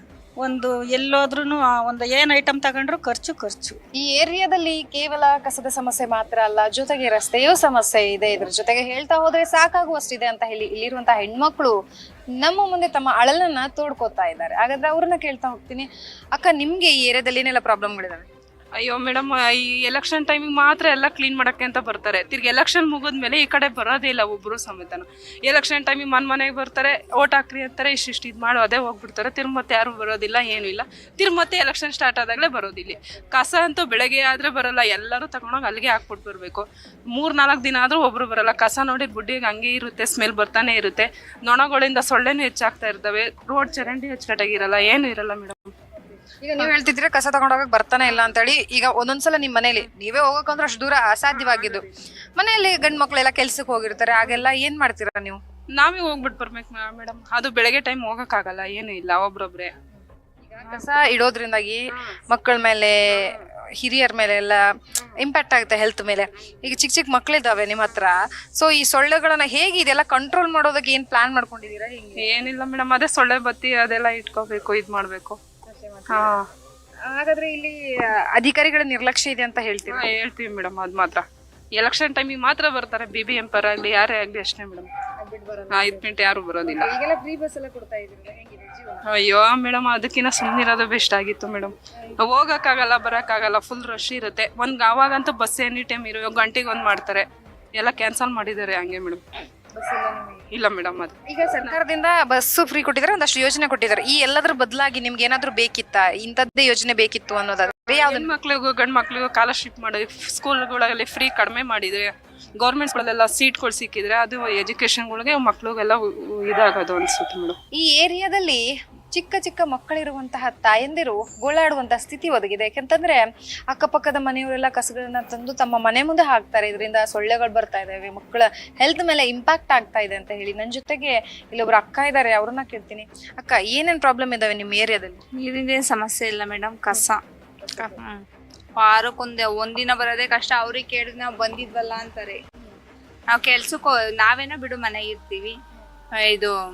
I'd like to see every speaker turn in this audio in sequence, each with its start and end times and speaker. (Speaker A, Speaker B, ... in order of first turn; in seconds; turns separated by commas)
Speaker A: 0.4-3.8, Speaker B: 4.0-11.8, Speaker B: 12.4-18.3, Speaker C: 18.8-45.7, Speaker B: 46.0-51.8, Speaker C: 51.3-51.9, Speaker B: 52.4-55.4, Speaker C: 55.8-59.7, Speaker B: 60.4-72.2, Speaker C: 72.2-75.4, Speaker B: 75.7-76.4, Speaker C: 76.1-76.5, Speaker B: 77.1-80.0, Speaker C: 79.9-84.9, Speaker B: 85.2-86.1, Speaker C: 85.7-87.0, Speaker B: 86.7-89.0, Speaker C: 89.0-99.2, Speaker B: 99.8-100.4, Speaker C: 100.5-101.8, Speaker B: 101.3-108.3, Speaker C: 107.9-117.6, Speaker B: 117.7-135.2, Speaker D: 135.3-137.2, Speaker B: 137.6-137.9, Speaker D: 137.7-138.2, Speaker D: 138.8-142.4, Speaker D: 143.3-145.6, Speaker D: 146.1-146.6